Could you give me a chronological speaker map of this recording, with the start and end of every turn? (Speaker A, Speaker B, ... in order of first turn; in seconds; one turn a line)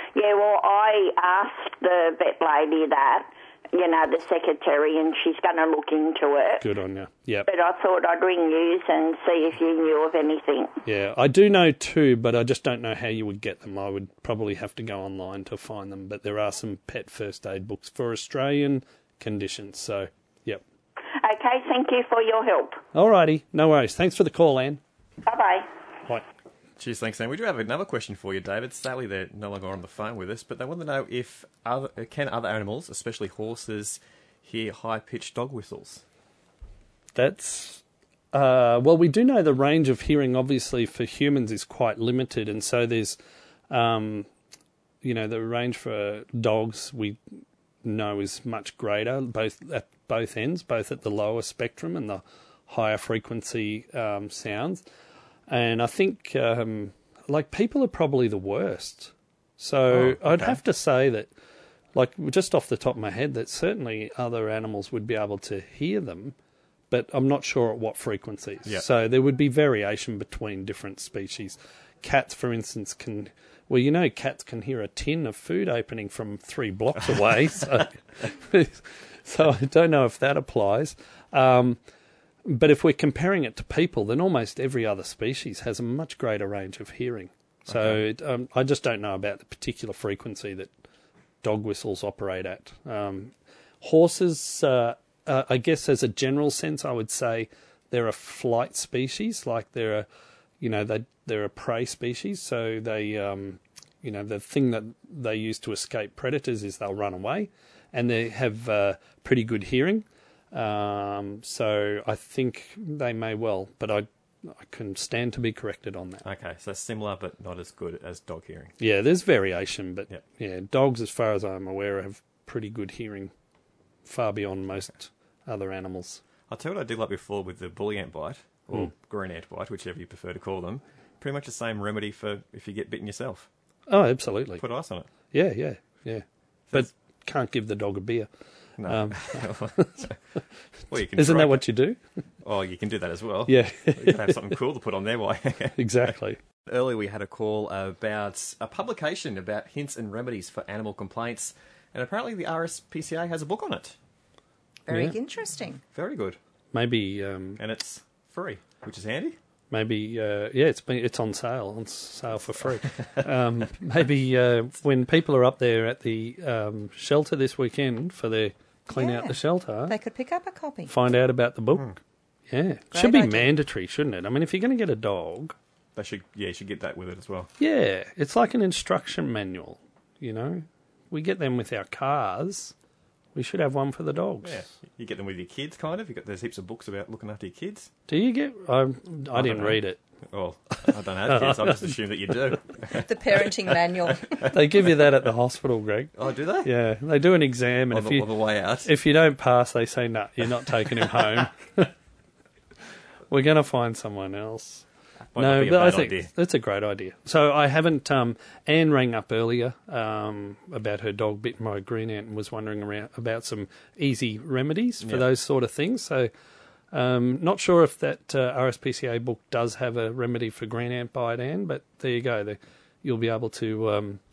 Speaker A: 0.1-6.6
Speaker B: 6.6-7.5
Speaker A: 7.5-10.8
Speaker B: 10.8-20.6
Speaker A: 21.2-22.8
Speaker B: 22.9-24.8
Speaker A: 25.2-25.7
Speaker C: 26.8-36.0
Speaker B: 37.1-43.2
Speaker B: 43.7-44.3
Speaker B: 45.0-47.2
Speaker B: 47.8-54.8
Speaker B: 55.5-61.3
Speaker C: 59.9-60.6
Speaker B: 61.9-66.3
Speaker B: 66.9-81.8
Speaker B: 82.5-90.7
Speaker C: 87.7-88.0
Speaker B: 91.4-100.1
Speaker B: 100.6-116.2
Speaker C: 116.2-118.8
Speaker B: 118.8-123.3
Speaker B: 124.0-126.2
Speaker C: 126.5-133.5
Speaker B: 133.9-134.6
Speaker C: 134.6-135.1
Speaker B: 135.3-138.3
Speaker C: 138.8-140.2
Speaker B: 138.8-140.4
Speaker C: 140.9-141.6
Speaker B: 141.1-142.0
Speaker C: 142.4-153.9
Speaker B: 143.4-144.3
Speaker B: 145.8-146.4
Speaker D: 154.9-155.8
Speaker B: 154.9-155.2
Speaker C: 155.9-156.4
Speaker B: 156.7-157.6
Speaker C: 157.6-159.3
Speaker B: 159.7-169.9
Speaker C: 162.9-163.2
Speaker D: 168.9-170.9
Speaker B: 170.9-171.9
Speaker B: 172.5-175.5
Speaker D: 172.9-173.5
Speaker C: 175.9-177.5
Speaker B: 177.6-182.7
Speaker B: 183.3-184.6
Speaker C: 184.4-187.9
Speaker B: 188.1-190.0
Speaker C: 189.3-194.5
Speaker B: 190.9-191.9
Speaker D: 192.9-194.4
Speaker B: 194.5-198.3
Speaker C: 196.2-196.7
Speaker C: 197.9-198.9
Speaker B: 198.8-201.9
Speaker B: 203.3-216.3
Speaker C: 205.3-206.3
Speaker B: 216.9-224.2